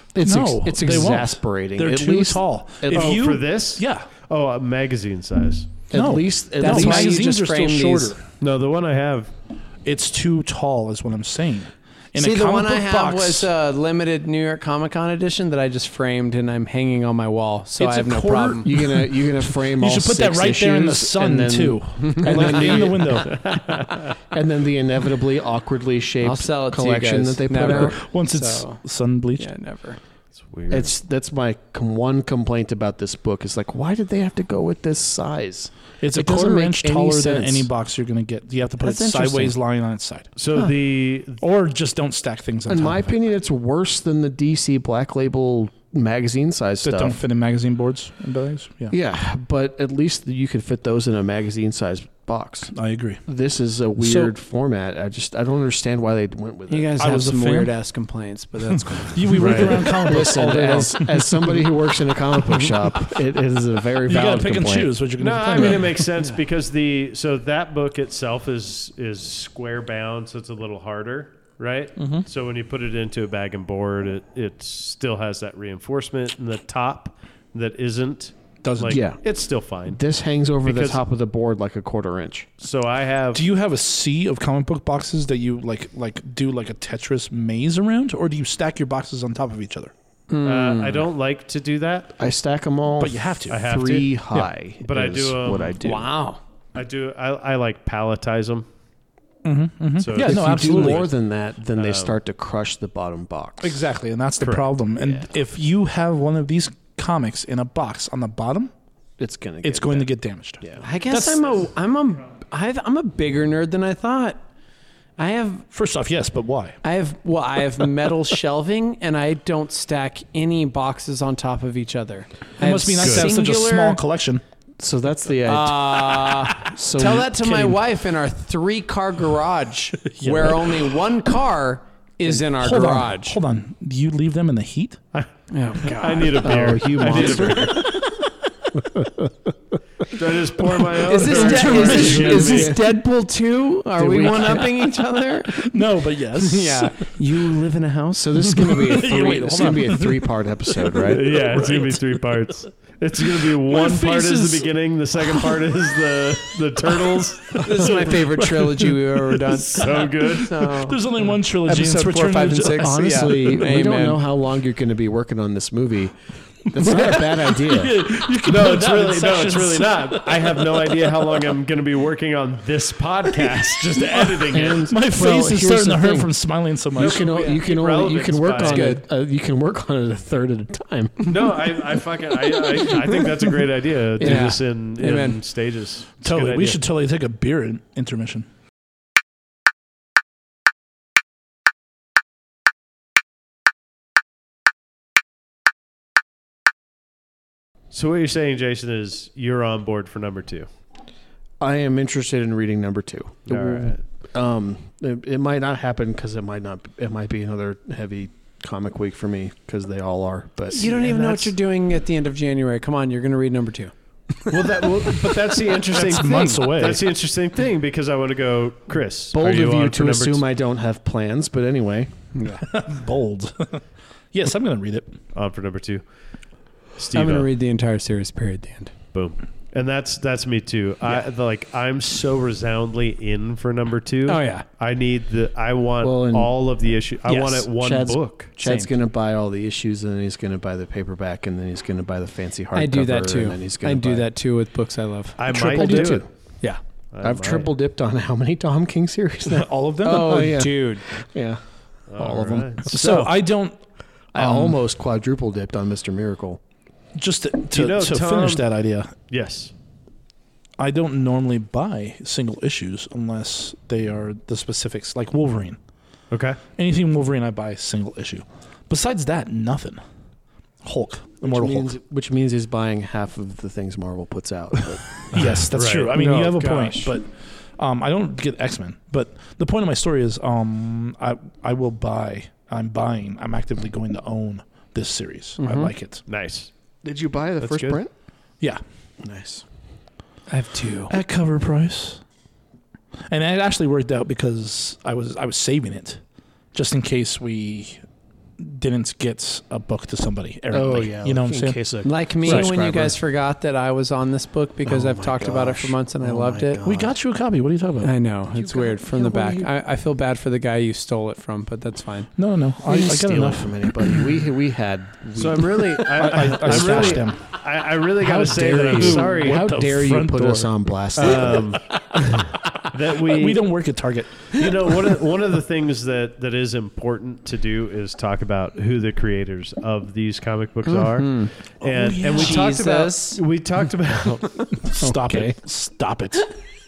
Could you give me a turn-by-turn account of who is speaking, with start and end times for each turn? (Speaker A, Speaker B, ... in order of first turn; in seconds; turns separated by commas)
Speaker A: 0.1-3.2, Speaker B: 0.2-4.1, Speaker C: 2.9-5.7, Speaker A: 5.9-7.2, Speaker B: 5.9-8.2, Speaker D: 6.6-8.2, Speaker C: 8.4-9.3, Speaker B: 9.8-13.5, Speaker D: 12.2-18.7, Speaker B: 17.8-23.4, Speaker A: 18.6-23.7, Speaker D: 22.0-22.9, Speaker C: 23.2-24.0, Speaker A: 24.3-28.0, Speaker D: 26.2-28.8, Speaker B: 27.6-29.5, Speaker D: 29.4-30.0, Speaker C: 30.4-30.9, Speaker A: 30.7-37.7, Speaker B: 36.0-40.3, Speaker D: 38.8-39.4, Speaker C: 40.4-41.4, Speaker B: 41.4-43.1, Speaker A: 42.7-47.2, Speaker B: 46.8-48.9, Speaker A: 48.9-52.7, Speaker B: 52.7-53.2, Speaker A: 53.3-57.0, Speaker B: 54.0-54.3, Speaker D: 56.7-60.8, Speaker B: 57.0-57.7, Speaker B: 59.0-61.7, Speaker C: 59.4-59.8, Speaker A: 59.6-64.9, Speaker B: 64.0-66.1, Speaker C: 65.2-80.0, Speaker B: 72.0-72.3, Speaker B: 78.6-79.0, Speaker A: 78.9-79.2, Speaker A: 79.9-82.5, Speaker C: 80.6-81.0, Speaker C: 82.6-83.4, Speaker B: 83.3-89.9, Speaker D: 90.3-91.0, Speaker C: 90.4-92.2, Speaker A: 92.2-96.1, Speaker B: 93.0-93.6, Speaker C: 93.5-94.1, Speaker C: 94.8-95.8, Speaker D: 95.8-96.4, Speaker C: 96.8-98.7, Speaker B: 99.4-101.1, Speaker C: 100.0-101.1, Speaker A: 100.2-103.8, Speaker C: 101.8-102.2, Speaker B: 103.6-108.7, Speaker C: 104.4-104.7, Speaker A: 105.0-105.3, Speaker A: 109.2-110.1, Speaker B: 109.6-111.5, Speaker A: 110.6-110.9, Speaker D: 110.8-114.4, Speaker D: 115.2-115.7, Speaker B: 115.7-116.8, Speaker D: 116.8-124.0, Speaker B: 122.6-124.4, Speaker C: 123.0-123.3, Speaker A: 124.8-127.8, Speaker D: 125.5-133.4, Speaker B: 130.2-130.8, Speaker B: 132.3-135.0, Speaker D: 135.5-136.4, Speaker C: 135.8-137.9, Speaker A: 136.4-138.0, Speaker D: 137.1-137.7, Speaker B: 137.8-138.3, Speaker A: 138.8-139.3, Speaker C: 140.1-142.8, Speaker D: 141.0-145.7, Speaker B: 141.2-142.8, Speaker A: 141.3-142.8, Speaker A: 144.0-144.8, Speaker B: 145.4-147.1, Speaker D: 146.3-148.7, Speaker A: 148.2-151.4, Speaker B: 148.5-152.0, Speaker C: 151.0-157.7, Speaker B: 153.2-155.7, Speaker B: 157.0-163.6, Speaker D: 157.6-161.0, Speaker C: 159.8-160.6, Speaker D: 161.6-164.2, Speaker A: 162.8-168.0, Speaker B: 166.7-171.4, Speaker C: 168.4-174.9, Speaker B: 173.4-177.3, Speaker A: 174.5-176.3, Speaker A: 176.9-181.4, Speaker C: 176.9-179.0, Speaker D: 178.6-179.1, Speaker C: 181.2-186.8, Speaker D: 182.7-183.4, Speaker D: 184.2-185.4, Speaker A: 184.2-184.5, Speaker B: 186.2-188.5, Speaker C: 197.9-200.7, Speaker A: 201.6-211.5, Speaker C: 203.5-204.0, Speaker D: 210.7-213.9, Speaker C: 214.5-220.4, Speaker B: 215.8-217.1, Speaker A: 219.3-222.1, Speaker D: 222.3-222.7, Speaker B: 222.6-225.2, Speaker C: 225.3-226.0, Speaker C: 227.0-227.5, Speaker D: 227.1-228.9, Speaker C: 229.1-238.5, Speaker D: 234.3-234.7, Speaker A: 236.0-236.5, Speaker D: 237.3-237.7, Speaker A: 237.7-244.3, Speaker D: 238.6-238.9, Speaker D: 242.7-246.8, Speaker C: 245.4-246.3, Speaker A: 245.5-246.3, Speaker C: 247.1-247.7, Speaker A: 247.2-251.6, Speaker B: 249.5-250.6, Speaker D: 250.0-251.1, Speaker C: 252.1-253.3, Speaker A: 252.2-253.2, Speaker B: 252.9-253.8, Speaker A: 254.3-256.6, Speaker B: 254.3-254.8, Speaker B: 257.2-259.1, Speaker C: 257.7-258.7, Speaker C: 259.3-259.7, Speaker B: 260.8-265.8, Speaker C: 266.3-266.6, Speaker B: 266.8-270.0, Speaker B: 270.8-272.0, Speaker A: 271.4-275.6, Speaker B: 275.3-286.2, Speaker C: 275.7-277.0, Speaker A: 276.2-277.1, Speaker D: 285.6-285.9, Speaker C: 286.3-286.7, Speaker A: 287.0-288.1, Speaker C: 287.6-288.0, Speaker A: 289.2-289.6, Speaker D: 290.5-291.1, Speaker B: 291.1-292.2, Speaker B: 293.3-296.2, Speaker B: 296.7-298.0, Speaker B: 298.6-301.8, Speaker A: 300.7-303.2, Speaker D: 302.0-306.8, Speaker B: 302.4-302.7, Speaker A: 304.9-307.1, Speaker B: 306.8-308.1, Speaker D: 308.0-312.3, Speaker A: 308.5-309.7, Speaker B: 312.4-313.9, Speaker A: 312.9-317.2, Speaker C: 315.4-319.7, Speaker B: 316.1-317.4, Speaker A: 318.2-321.8, Speaker B: 318.9-321.3, Speaker C: 321.2-323.6, Speaker B: 323.3-324.9, Speaker C: 324.5-334.8, Speaker D: 330.9-331.5, Speaker B: 331.8-332.7, Speaker D: 332.3-333.4, Speaker B: 334.9-336.5, Speaker A: 335.0-335.5